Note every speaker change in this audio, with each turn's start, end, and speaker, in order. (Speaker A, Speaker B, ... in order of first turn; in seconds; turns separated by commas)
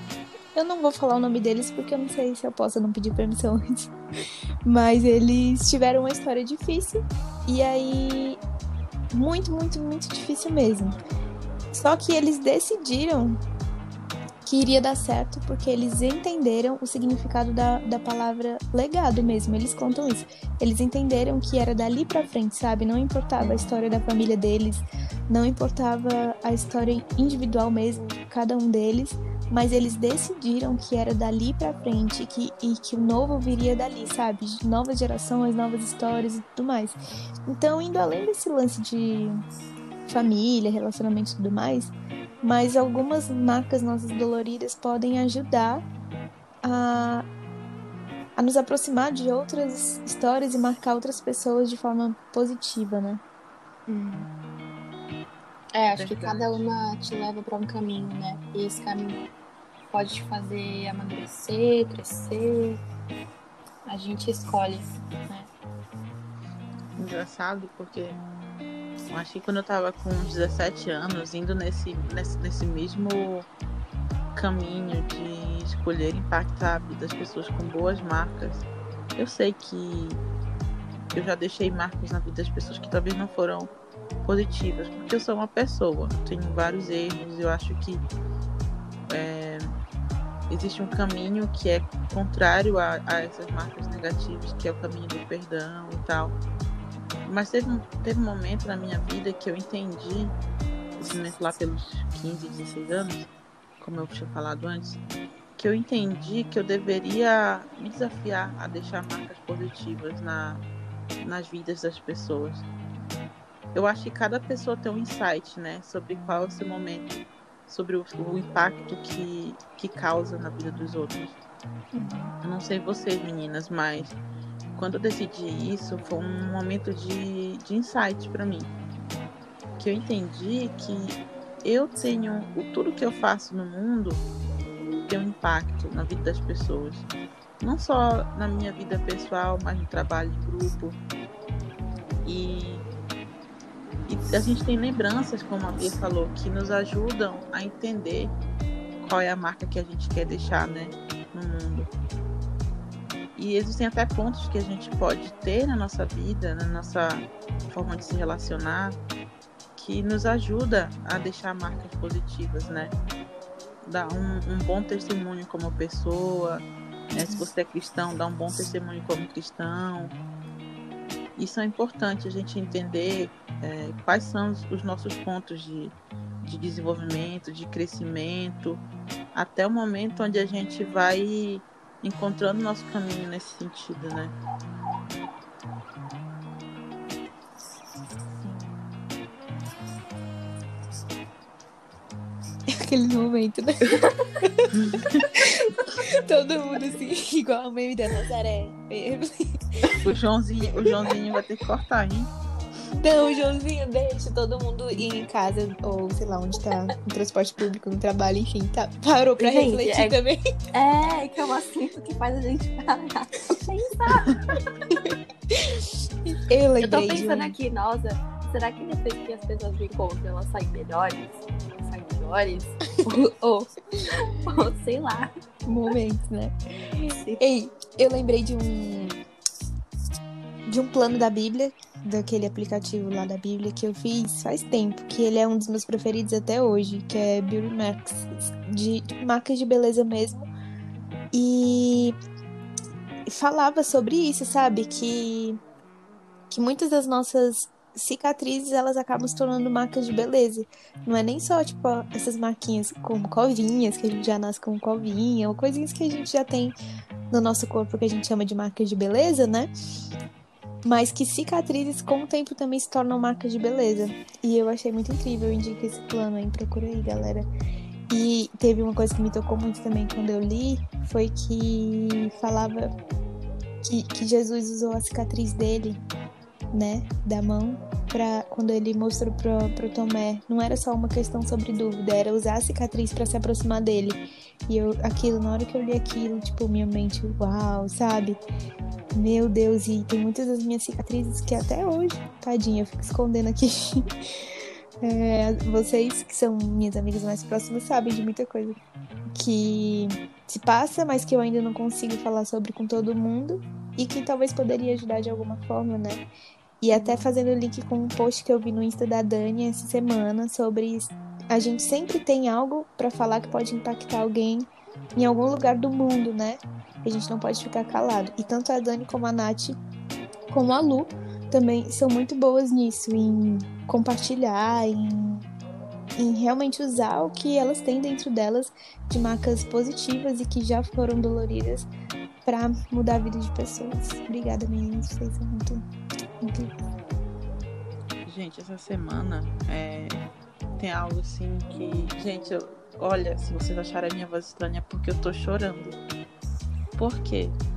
Speaker A: 0.6-3.9, Speaker A: 4.7-8.4, Speaker A: 9.1-11.0, Speaker A: 11.7-13.4, Speaker A: 14.4-39.4, Speaker B: 23.4-23.8, Speaker A: 40.1-45.8, Speaker A: 46.6-47.3, Speaker A: 48.4-53.2, Speaker B: 53.9-54.3, Speaker B: 55.7-59.3, Speaker C: 55.9-56.6, Speaker B: 59.9-62.8, Speaker B: 63.9-65.5, Speaker C: 67.0-68.2, Speaker C: 69.1-73.5, Speaker C: 74.3-80.2, Speaker C: 81.1-83.7, Speaker C: 84.2-88.0, Speaker C: 89.1-89.8, Speaker C: 90.5-96.4, Speaker C: 97.3-100.3, Speaker C: 101.0-103.3, Speaker C: 103.8-105.0, Speaker C: 105.6-110.6, Speaker C: 111.2-112.7, Speaker C: 113.7-121.4, Speaker A: 122.0-122.2, Speaker C: 122.4-124.2, Speaker C: 124.8-128.7, Speaker C: 129.8-134.2, Speaker C: 135.1-137.1, Speaker C: 137.6-141.0, Speaker C: 142.2-142.8, Speaker C: 144.1-148.3, Speaker C: 149.0-151.9, Speaker C: 153.4-159.0, Speaker C: 159.8-162.9, Speaker C: 163.8-170.2, Speaker C: 171.4-178.8, Speaker C: 179.3-184.3, Speaker A: 192.7-194.7, Speaker C: 194.7-195.2, Speaker A: 195.4-200.0, Speaker C: 199.9-202.3, Speaker A: 200.9-201.1, Speaker A: 203.0-210.4, Speaker B: 209.4-210.2, Speaker B: 210.7-214.4, Speaker A: 214.9-217.6, Speaker B: 216.8-225.3, Speaker A: 225.7-229.2, Speaker B: 227.2-227.4, Speaker A: 230.7-240.5, Speaker A: 241.3-242.2, Speaker A: 243.3-245.6, Speaker A: 246.5-256.8, Speaker A: 257.3-259.7, Speaker A: 260.8-267.5, Speaker A: 268.1-272.9, Speaker A: 273.8-276.0, Speaker A: 276.7-288.4, Speaker A: 289.1-294.5, Speaker A: 295.0-298.8, Speaker A: 299.4-306.2, Speaker A: 306.8-319.8, Speaker A: 320.5-325.5, Speaker A: 326.2-331.9, Speaker A: 332.4-335.9, Speaker A: 336.4-336.7, Speaker C: 338.3-340.2, Speaker C: 340.8-346.0, Speaker C: 347.0-347.6